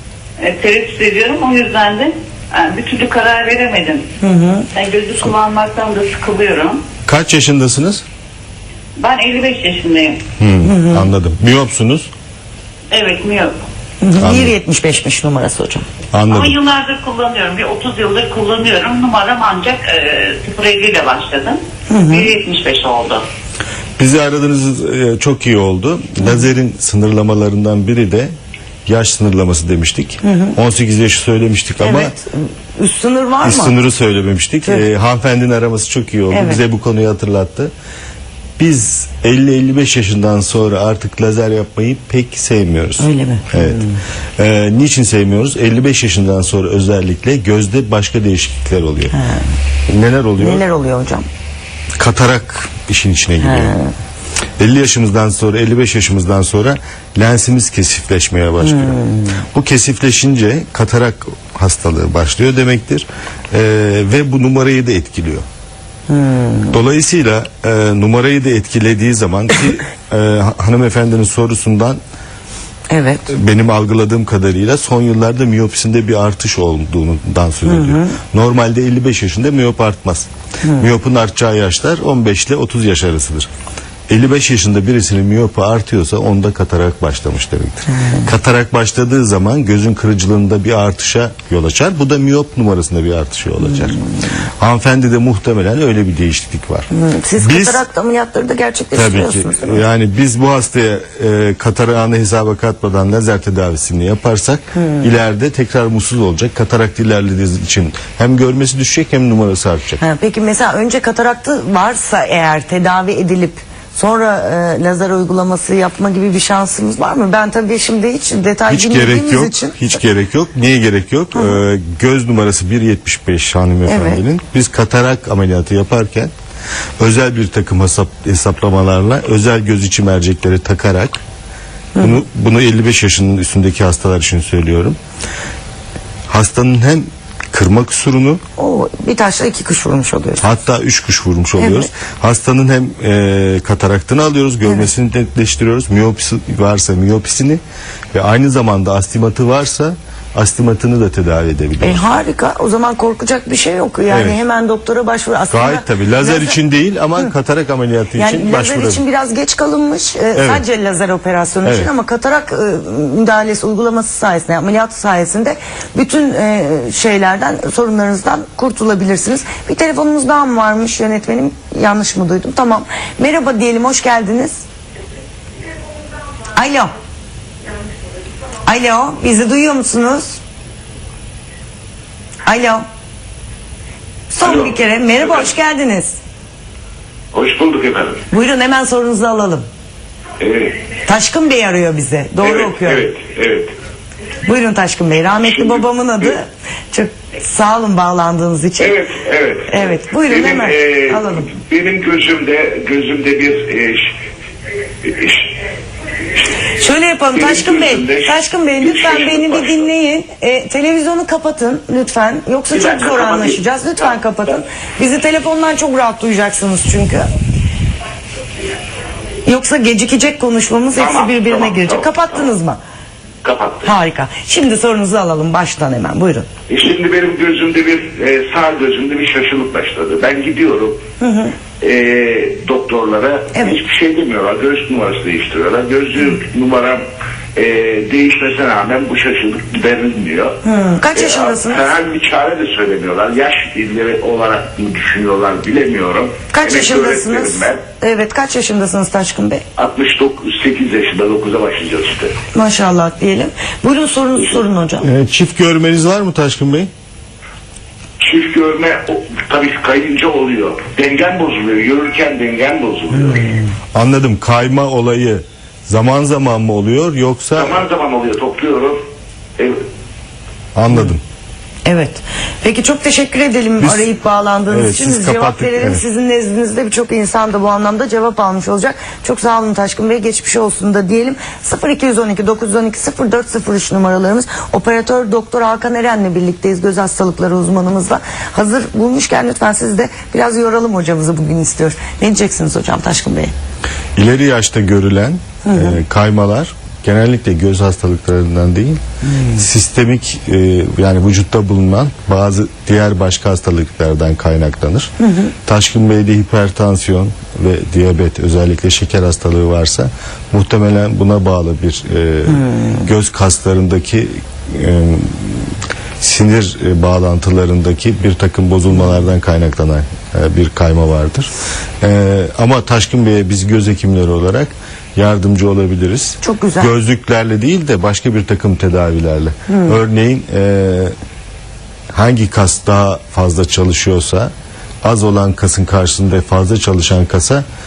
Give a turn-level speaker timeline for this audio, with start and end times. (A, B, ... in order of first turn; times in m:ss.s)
0:00.4-0:04.1 A
0:04.2-0:04.7 B
0:04.7-0:06.8 A
0:07.0-0:08.0 C
0:09.0-0:10.2 A
0:10.4-0:12.1 C
0:10.6-0:11.0 B
0:12.9-0:13.6 A
0:14.0-0:15.8 B
0:14.2-0:14.5 C
0:16.1-0:16.6 C
0:16.3-0:23.2 A
0:21.9-0:22.3 B
0:24.0-0:28.3 C
0:28.9-0:32.2 C
0:30.2-0:30.6 B
0:31.8-0:33.8 B
0:33.4-0:37.7 C
0:36.3-0:36.6 B
0:38.6-0:43.8 C
0:43.0-0:44.0 B
0:44.4-0:49.1 C
0:49.1-0:49.5 B
0:49.9-0:50.6 C
0:50.4-0:51.3 B
0:52.0-0:53.8 C
0:53.4-0:53.9 B
0:54.6-0:59.0 C
0:58.6-0:59.4 B
0:59.5-1:05.4 C
1:06.1-1:06.7 B
1:06.7-1:12.0 C
1:12.9-1:13.2 B
1:13.3-1:23.5 C
1:17.6-1:18.2 B
1:24.1-1:34.0 C
1:27.9-1:28.3 B
1:34.6-1:36.9 C
1:36.9-1:39.8 B
1:37.4-1:37.8 C
1:38.9-1:50.0 C
1:44.8-1:45.0 B
1:50.0-1:59.8 B
1:58.7-2:06.3 C
2:03.9-2:04.2 B
2:07.0-2:11.2 C
2:12.0-2:15.0 C
2:16.3-2:18.4 C
2:18.6-2:20.5 B
2:20.4-2:27.6 C
2:21.6-2:21.9 B
2:28.1-2:32.2 C
2:31.8-2:36.6 B
2:34.1-2:34.4 C
2:35.5-2:39.0 C
2:38.2-2:54.6 B
2:40.4-2:40.6 C
2:41.6-2:41.9 C
2:56.6-2:56.9 B
2:58.7-3:00.4 B
3:02.5-3:02.8 B
3:04.3-3:06.2 B
3:04.4-3:05.5 D
3:07.3-3:08.2 D
3:08.3-3:09.7 B
3:10.4-3:10.8 D
3:11.1-3:13.1 B
3:12.4-3:13.7 D
3:14.5-3:19.0 B
3:15.4-3:16.4 D
3:18.8-3:24.1 D
3:19.7-3:21.5 B
3:25.0-3:25.6 D
3:26.6-3:37.3 B
3:27.3-3:29.9 D
3:32.7-3:34.6 D
3:39.5-3:42.8 B
3:41.0-3:42.2 D
3:43.4-3:43.9 D
3:43.8-3:46.5 B
3:46.7-3:51.0 D
3:51.2-3:51.5 B
3:51.8-3:57.0 D
3:53.5-3:53.8 B
3:57.6-4:00.6 D
4:00.6-4:01.9 B
4:01.2-4:07.8 D
4:06.5-4:09.6 B
4:09.8-4:12.4 D
4:12.5-4:15.1 B
4:15.0-4:16.9 C
4:18.2-4:23.6 D
4:23.9-4:27.8 C
4:27.6-4:29.0 D
4:29.6-4:29.8 D
4:30.8-4:31.2 C
4:31.8-4:53.5 B
4:33.8-4:34.1 C
4:34.7-4:36.0 C
4:54.2-4:59.0 C
4:55.7-4:56.0 B
4:59.2-4:59.6 B
4:59.5-5:05.1 C
5:05.2-5:05.5 B
5:05.6-5:21.5 C
5:22.0-5:31.1 C
5:26.4-5:26.9 B
5:29.7-5:30.0 B
5:32.1-5:34.5 C
5:35.0-5:37.6 C